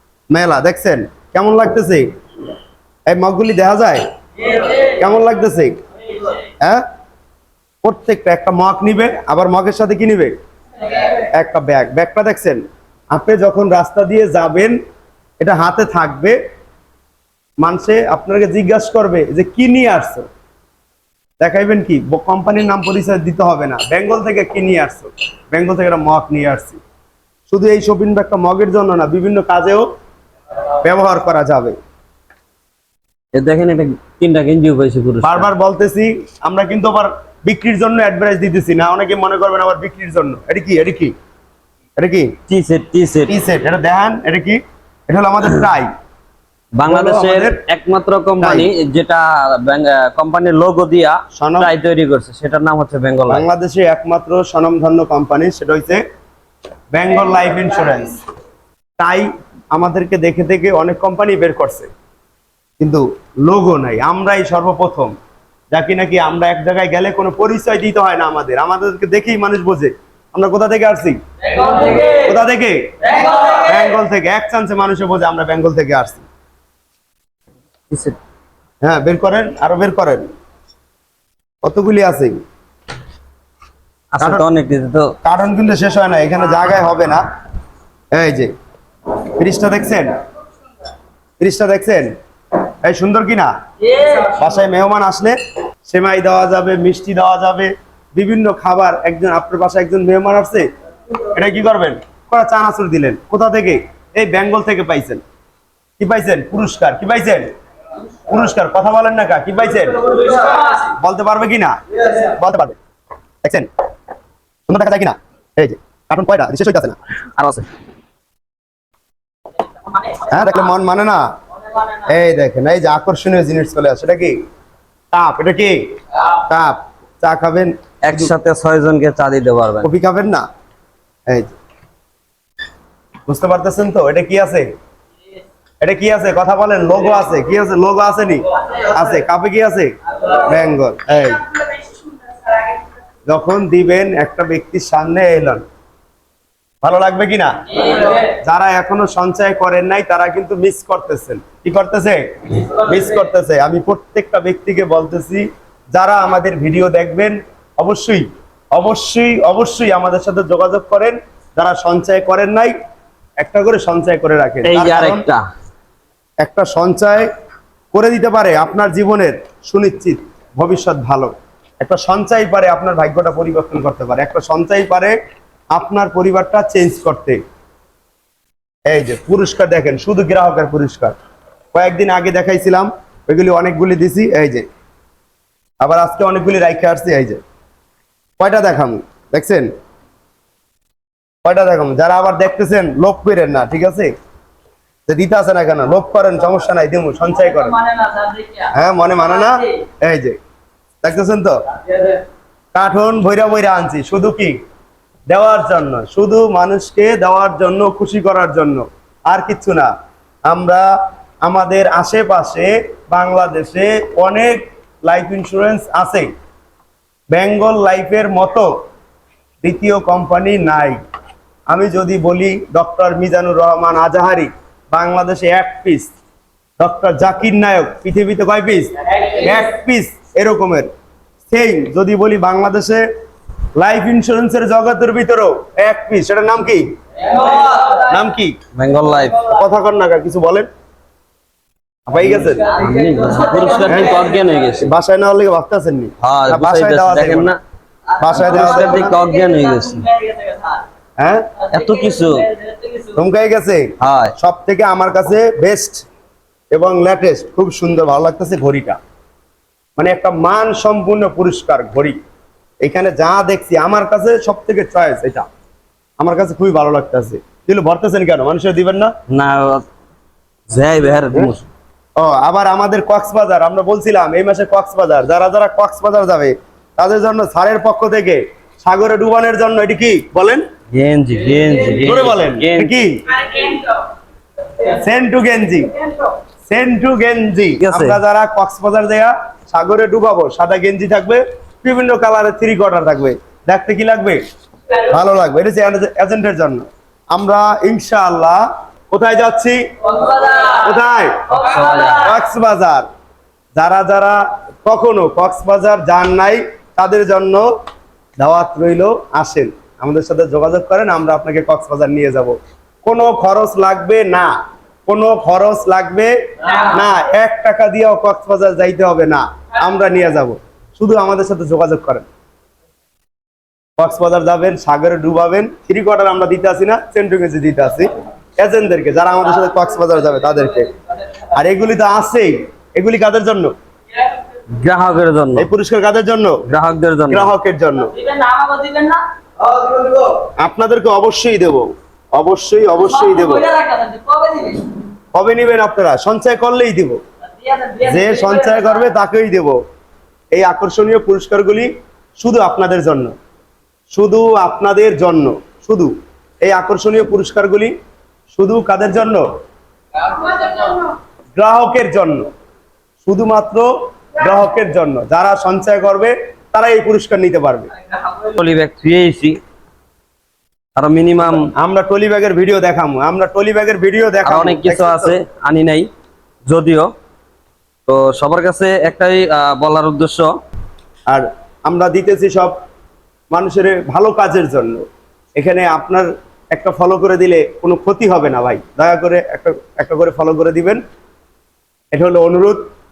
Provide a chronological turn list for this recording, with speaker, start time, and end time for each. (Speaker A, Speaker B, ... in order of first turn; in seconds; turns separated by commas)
Speaker A: 0.3-2.1, Speaker A: 3.1-5.8, Speaker A: 7.8-10.3, Speaker A: 11.0-14.8, Speaker A: 15.4-16.4, Speaker A: 17.6-20.3, Speaker A: 21.4-26.8, Speaker A: 27.5-29.9, Speaker A: 30.8-31.8, Speaker B: 33.4-35.5, Speaker A: 35.2-41.1, Speaker A: 42.0-42.3, Speaker B: 42.5-43.3, Speaker A: 43.3-45.9, Speaker B: 46.8-53.4, Speaker A: 46.9-47.6, Speaker A: 48.4-48.7, Speaker A: 51.4-51.7, Speaker A: 53.3-56.0, Speaker A: 56.9-58.2, Speaker A: 59.0-61.9, Speaker A: 62.8-65.1, Speaker A: 65.7-76.2, Speaker B: 77.9-78.2, Speaker A: 78.8-80.3, Speaker A: 81.6-82.3, Speaker B: 84.1-85.1, Speaker A: 85.2-87.2, Speaker A: 88.1-88.5, Speaker A: 89.3-90.2, Speaker A: 91.4-92.1, Speaker A: 92.8-100.7, Speaker A: 101.3-105.2, Speaker A: 106.0-107.5, Speaker A: 108.3-112.8, Speaker A: 113.4-113.7, Speaker A: 114.7-117.0, Speaker B: 117.4-117.7, Speaker A: 120.2-121.2, Speaker A: 121.9-124.4, Speaker A: 125.1-125.8, Speaker A: 126.3-128.3, Speaker B: 128.0-129.9, Speaker A: 129.8-130.4, Speaker A: 131.3-131.5, Speaker A: 133.3-134.7, Speaker A: 135.8-141.5, Speaker A: 143.3-145.6, Speaker A: 146.8-162.7, Speaker A: 163.4-165.2, Speaker B: 164.6-165.4, Speaker A: 166.4-167.3, Speaker A: 167.9-175.2, Speaker A: 175.7-177.4, Speaker A: 178.9-181.2, Speaker A: 181.7-184.7, Speaker A: 185.8-187.4, Speaker A: 188.4-189.7, Speaker A: 191.4-194.1, Speaker A: 195.1-197.8, Speaker C: 197.9-198.6, Speaker A: 198.7-200.4, Speaker A: 201.0-202.2, Speaker A: 202.7-204.6, Speaker A: 205.3-209.9, Speaker A: 210.5-210.8, Speaker A: 211.4-216.3, Speaker A: 217.3-218.7, Speaker A: 219.6-221.0, Speaker A: 221.7-226.1, Speaker A: 226.8-230.9, Speaker A: 231.5-233.1, Speaker A: 233.8-238.6, Speaker B: 238.8-239.5, Speaker A: 239.5-240.7, Speaker A: 242.1-242.7, Speaker B: 242.4-244.9, Speaker A: 243.8-244.2, Speaker A: 244.8-247.5, Speaker B: 246.2-247.6, Speaker A: 248.2-249.2, Speaker B: 248.3-250.1, Speaker C: 249.5-250.8, Speaker A: 251.2-251.5, Speaker B: 251.7-252.5, Speaker C: 252.6-253.1, Speaker A: 253.2-256.1, Speaker B: 254.0-254.3, Speaker A: 256.7-259.0, Speaker A: 260.0-262.2, Speaker A: 262.8-265.5, Speaker A: 266.2-269.1, Speaker B: 269.3-269.8, Speaker B: 270.7-271.7, Speaker A: 272.2-280.6, Speaker B: 280.9-282.9, Speaker A: 282.0-283.7, Speaker A: 284.8-285.9, Speaker A: 286.7-294.4, Speaker B: 287.8-288.2, Speaker A: 294.9-303.1, Speaker B: 301.5-302.4, Speaker A: 303.8-307.7, Speaker A: 308.4-314.5, Speaker A: 315.1-322.3, Speaker A: 324.0-330.9, Speaker A: 331.5-333.8, Speaker B: 334.7-335.7, Speaker A: 335.6-336.6, Speaker B: 336.7-337.5, Speaker A: 337.3-338.1, Speaker C: 338.1-339.2, Speaker A: 340.4-343.7, Speaker C: 343.3-344.9, Speaker A: 345.4-347.2, Speaker C: 347.6-348.8, Speaker A: 348.0-349.8, Speaker A: 350.5-353.3, Speaker A: 354.1-357.9, Speaker A: 358.5-359.5, Speaker A: 361.6-362.5, Speaker A: 363.2-367.9, Speaker B: 368.3-369.6, Speaker B: 371.0-371.7, Speaker A: 371.8-375.4, Speaker B: 374.4-376.1, Speaker B: 376.7-377.1, Speaker B: 378.1-380.5, Speaker A: 381.3-382.8, Speaker A: 383.5-385.1, Speaker A: 385.6-391.0, Speaker A: 392.1-392.8